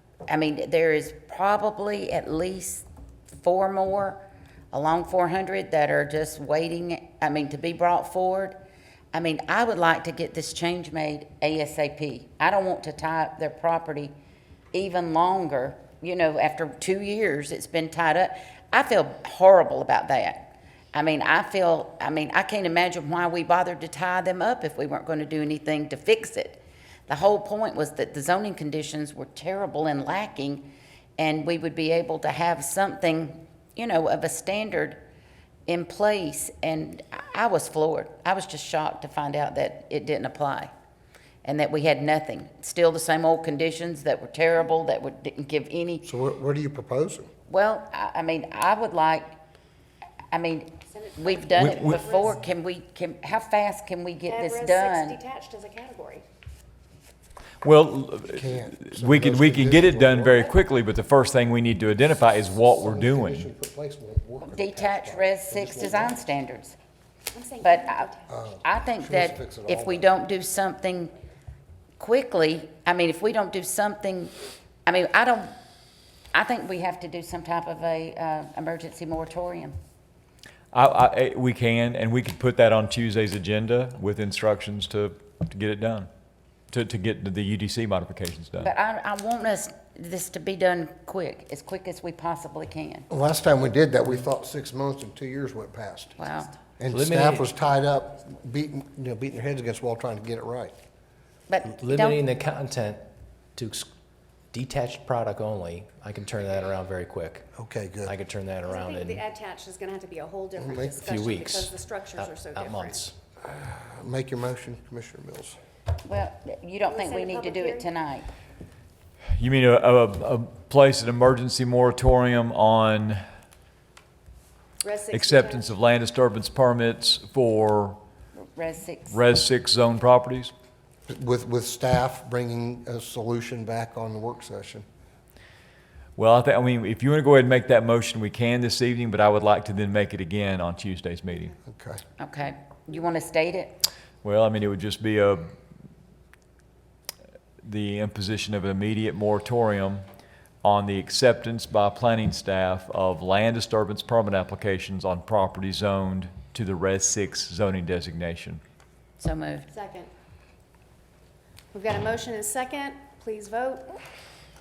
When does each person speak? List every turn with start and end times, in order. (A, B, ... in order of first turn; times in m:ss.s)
0:00.3-0:08.6 A
0:09.1-0:14.1 A
0:14.7-0:35.0 A
0:35.7-0:40.7 A
0:41.4-0:46.0 A
0:46.0-0:47.3 B
0:47.5-0:49.3 A
0:50.3-0:55.2 A
0:50.8-0:52.4 C
0:51.6-0:52.0 D
0:54.2-0:56.2 C
0:57.6-1:03.5 D
0:58.3-1:00.5 B
1:02.6-1:06.2 B
1:04.4-1:06.8 A
1:07.3-1:08.3 C
1:07.6-1:08.1 A
1:08.3-1:10.1 B
1:08.6-1:11.1 A
1:12.0-1:14.3 A
1:14.8-1:15.5 A
1:16.3-1:19.8 A
1:20.7-1:26.1 D
1:26.7-1:28.7 D
1:28.6-1:33.1 A
1:33.1-1:36.2 B
1:36.2-1:36.5 A
1:36.8-1:40.7 B
1:36.9-1:37.5 E
1:41.5-1:42.2 A
1:41.7-1:43.0 E
1:43.5-1:43.9 E
1:44.5-1:49.2 E
1:47.6-1:48.1 B
1:48.6-1:53.0 C
1:50.6-1:51.2 B
1:51.0-1:53.1 E
1:53.4-1:55.6 B
1:56.0-1:58.3 A
1:56.8-1:57.9 C
1:59.4-2:03.2 D
2:04.8-2:05.7 C
2:05.1-2:08.0 D
2:08.5-2:09.2 A
2:09.1-2:10.5 D
2:11.1-2:14.8 B
2:16.2-2:21.5 D
2:21.7-2:22.0 B
2:22.2-2:23.8 A
2:24.2-2:25.5 D
2:27.6-2:30.0 D
2:30.6-2:38.6 D
2:39.2-2:39.7 A
2:39.7-2:40.1 C
2:41.7-2:44.0 C